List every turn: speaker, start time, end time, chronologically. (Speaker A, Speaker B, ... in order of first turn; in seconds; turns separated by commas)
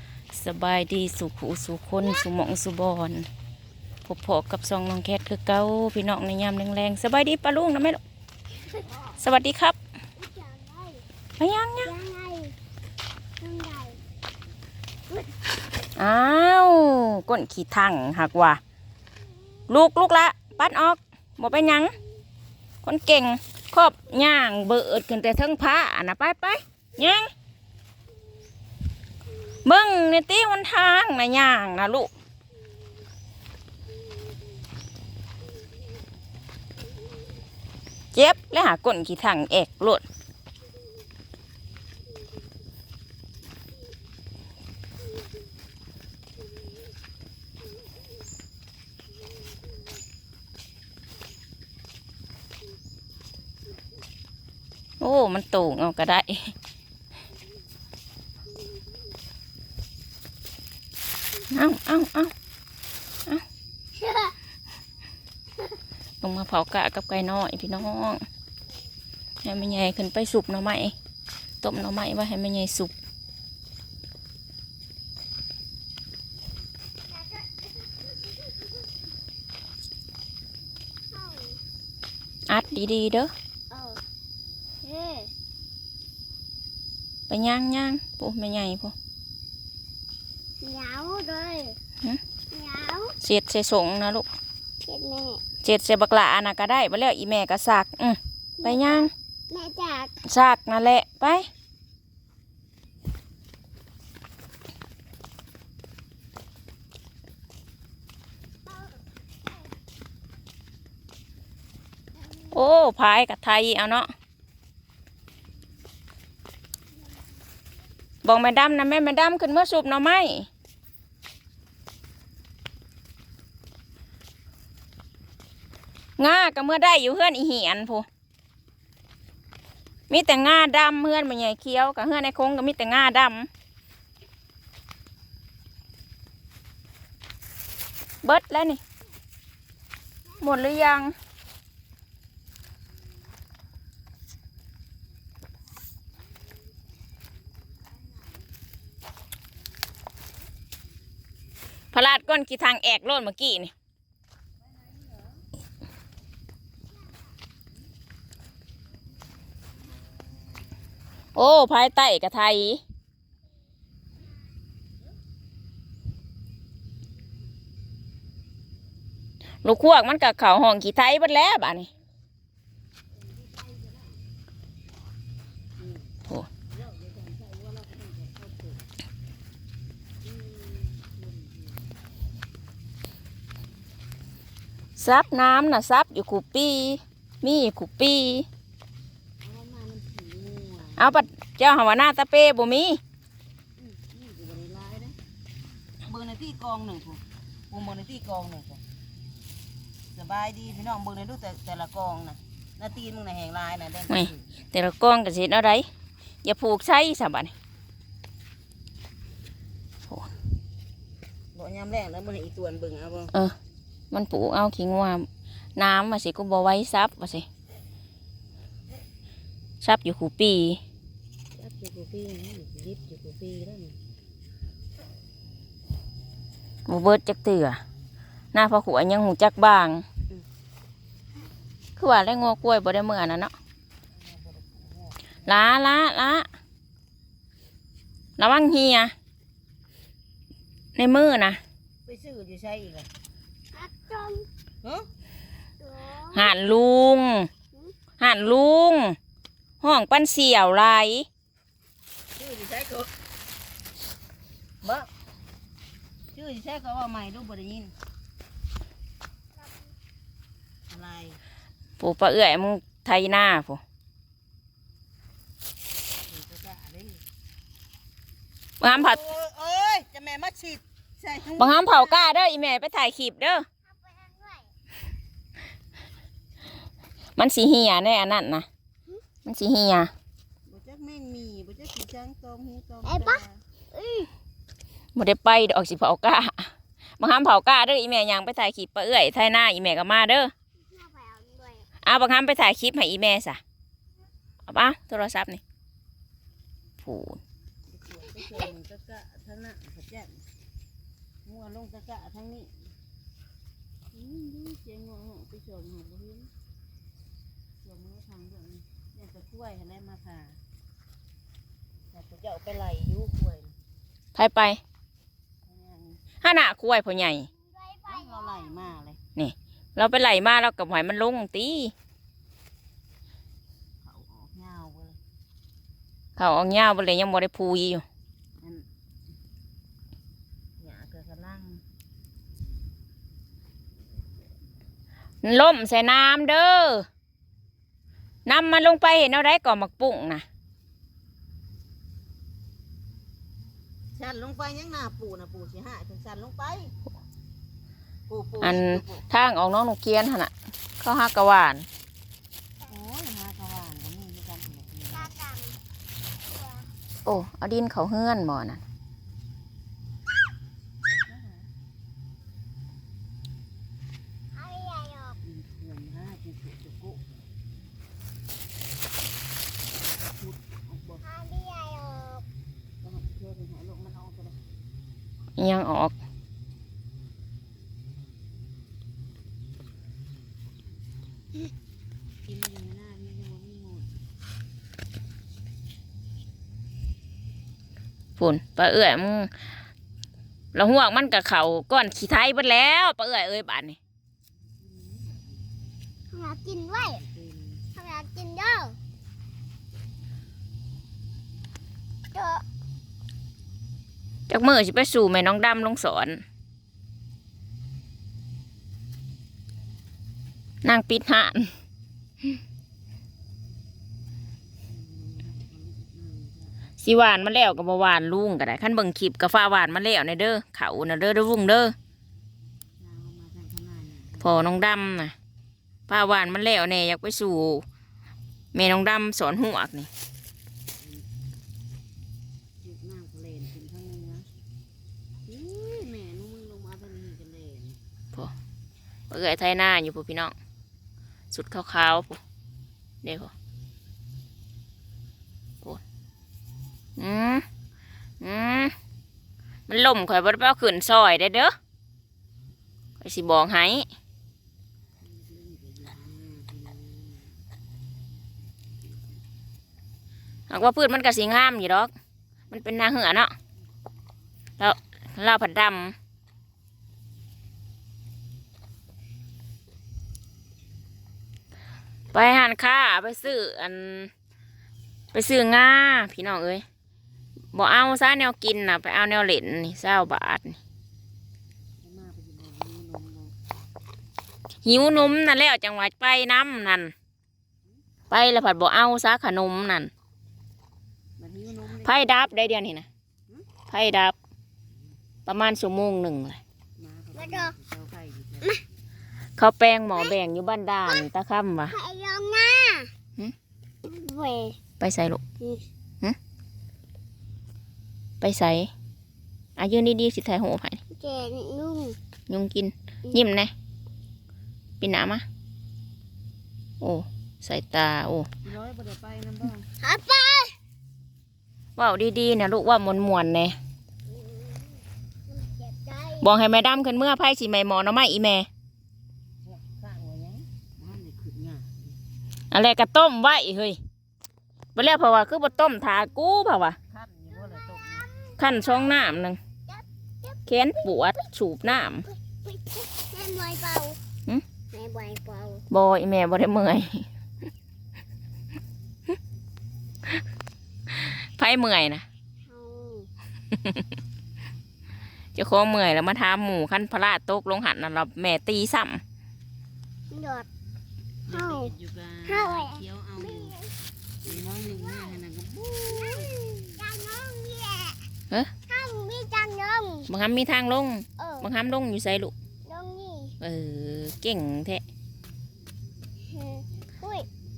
Speaker A: 0.3-3.3, Speaker A: 4.0-8.0, Speaker A: 9.2-9.8, Speaker B: 10.2-11.0, Speaker A: 11.4-11.9, Speaker B: 11.8-12.6, Speaker B: 13.4-14.0, Speaker A: 16.0-18.6, Speaker A: 19.7-21.9, Speaker A: 22.8-27.3, Speaker A: 29.6-32.1, Speaker A: 38.1-40.0, Speaker A: 55.0-56.5, Speaker A: 61.5-62.3, Speaker B: 64.0-64.3, Speaker A: 66.2-68.2, Speaker A: 69.4-71.0, Speaker A: 71.6-72.9, Speaker B: 81.1-81.6, Speaker A: 82.5-83.3, Speaker B: 83.7-84.0, Speaker B: 84.8-85.3, Speaker A: 87.3-89.0, Speaker B: 90.6-91.8, Speaker B: 92.5-93.2, Speaker A: 93.2-94.3, Speaker B: 94.8-95.4, Speaker A: 95.6-99.1, Speaker B: 98.6-100.1, Speaker A: 100.2-101.5, Speaker A: 112.5-114.1, Speaker A: 118.2-120.5, Speaker A: 126.2-128.1, Speaker A: 130.1-133.5, Speaker A: 138.2-138.8, Speaker A: 140.4-141.1, Speaker A: 151.9-153.7, Speaker C: 154.7-155.4, Speaker A: 161.3-162.8, Speaker A: 169.6-171.9, Speaker C: 173.3-174.1, Speaker C: 175.8-176.1, Speaker C: 176.7-178.8, Speaker C: 180.2-181.8, Speaker A: 185.0-188.5, Speaker C: 189.4-191.2, Speaker A: 191.0-193.0, Speaker C: 193.8-195.2, Speaker C: 196.0-198.8, Speaker C: 200.2-204.4, Speaker A: 204.1-205.9, Speaker A: 206.4-207.5, Speaker C: 211.5-213.3, Speaker A: 214.1-217.5, Speaker A: 219.8-220.8, Speaker C: 221.6-224.0, Speaker A: 226.9-227.8, Speaker A: 228.5-230.1, Speaker A: 232.0-233.5, Speaker C: 234.2-235.4, Speaker A: 235.5-236.5, Speaker A: 238.4-239.1, Speaker A: 241.0-241.6, Speaker C: 242.1-243.1, Speaker B: 243.7-244.5, Speaker C: 244.8-245.1, Speaker B: 245.8-246.5, Speaker A: 246.3-247.5, Speaker A: 248.2-249.2, Speaker A: 249.8-251.3, Speaker C: 252.4-253.1, Speaker C: 254.8-255.1, Speaker C: 256.3-257.9, Speaker C: 260.9-261.4, Speaker A: 262.0-263.8, Speaker C: 266.3-267.2, Speaker A: 268.8-269.2, Speaker C: 268.9-272.2, Speaker A: 271.6-273.7, Speaker B: 273.9-274.7, Speaker A: 277.4-278.7, Speaker A: 279.4-280.1, Speaker C: 280.7-283.6, Speaker B: 283.1-284.3, Speaker A: 285.1-290.5, Speaker B: 290.9-291.9, Speaker A: 292.0-293.6, Speaker A: 294.7-295.6, Speaker A: 297.0-297.4, Speaker C: 297.9-300.4, Speaker C: 301.4-302.7, Speaker C: 304.1-306.5, Speaker C: 307.8-310.6, Speaker C: 312.1-313.7, Speaker A: 314.4-314.8, Speaker C: 315.7-316.2, Speaker A: 316.4-317.5, Speaker B: 317.6-318.8, Speaker C: 318.1-319.2, Speaker A: 319.4-321.9, Speaker C: 324.0-325.2, Speaker A: 326.4-328.1, Speaker C: 328.6-328.9, Speaker C: 330.8-331.8, Speaker A: 335.4-337.1, Speaker A: 338.5-340.4, Speaker C: 344.2-346.9, Speaker C: 348.3-349.2, Speaker A: 348.6-351.9, Speaker C: 352.9-355.3, Speaker B: 355.1-355.8, Speaker B: 356.6-356.9, Speaker A: 357.2-358.8, Speaker C: 361.3-361.7, Speaker B: 364.5-365.4, Speaker C: 365.4-367.2, Speaker C: 370.0-371.2, Speaker B: 371.2-372.4, Speaker C: 373.0-374.6, Speaker A: 375.6-376.2, Speaker C: 382.5-384.1, Speaker A: 388.4-389.5, Speaker A: 390.7-394.0, Speaker C: 394.8-395.6, Speaker B: 396.3-397.2, Speaker C: 397.1-397.8, Speaker B: 397.9-399.0, Speaker B: 402.3-402.6, Speaker A: 404.5-406.4, Speaker A: 410.8-411.7, Speaker C: 414.9-416.8, Speaker A: 417.0-421.9, Speaker C: 423.0-424.6, Speaker A: 424.4-425.4, Speaker A: 426.1-427.9, Speaker A: 428.7-430.1, Speaker C: 431.0-431.2, Speaker C: 432.8-434.5, Speaker C: 435.5-438.0, Speaker A: 439.3-440.6, Speaker A: 441.5-442.4, Speaker A: 443.2-443.5, Speaker A: 447.2-447.6, Speaker A: 448.4-448.9, Speaker A: 449.9-451.8, Speaker A: 453.2-454.1, Speaker C: 455.2-457.5, Speaker A: 460.7-462.1, Speaker A: 462.7-463.5, Speaker A: 464.8-466.1, Speaker A: 472.3-474.3, Speaker A: 475.3-476.8, Speaker A: 477.7-480.8, Speaker C: 482.0-483.5, Speaker A: 484.8-487.1, Speaker A: 488.3-490.1, Speaker C: 491.4-492.6, Speaker A: 492.0-493.1, Speaker A: 493.9-494.4, Speaker A: 495.5-496.6, Speaker C: 497.0-498.7, Speaker B: 497.4-497.7, Speaker A: 499.6-502.0, Speaker B: 501.9-503.1, Speaker B: 504.0-504.8, Speaker A: 505.0-505.4, Speaker A: 508.4-508.9, Speaker A: 509.8-511.0, Speaker B: 511.1-512.2, Speaker A: 512.5-513.7, Speaker A: 515.0-515.5, Speaker A: 517.0-518.5, Speaker C: 518.6-519.9, Speaker B: 520.0-520.8, Speaker A: 522.0-523.8, Speaker B: 524.3-526.5, Speaker A: 526.4-528.7, Speaker C: 529.6-532.1, Speaker A: 532.7-534.0, Speaker A: 535.0-537.0, Speaker C: 537.1-538.2, Speaker B: 537.6-539.2, Speaker A: 538.6-539.6, Speaker B: 539.9-541.5, Speaker A: 540.7-542.3, Speaker B: 542.3-544.2, Speaker B: 544.9-545.8, Speaker A: 545.9-547.3, Speaker A: 551.1-552.2, Speaker B: 552.7-553.3, Speaker A: 553.7-554.1, Speaker A: 555.5-559.2, Speaker B: 560.3-560.7, Speaker C: 561.5-563.8, Speaker B: 561.5-561.9, Speaker B: 562.5-563.9, Speaker C: 564.4-566.7, Speaker B: 565.0-565.4, Speaker B: 566.1-568.3, Speaker B: 568.9-570.3, Speaker A: 570.3-572.5, Speaker B: 571.4-571.7, Speaker B: 572.9-573.5, Speaker A: 573.6-575.0, Speaker B: 576.5-577.5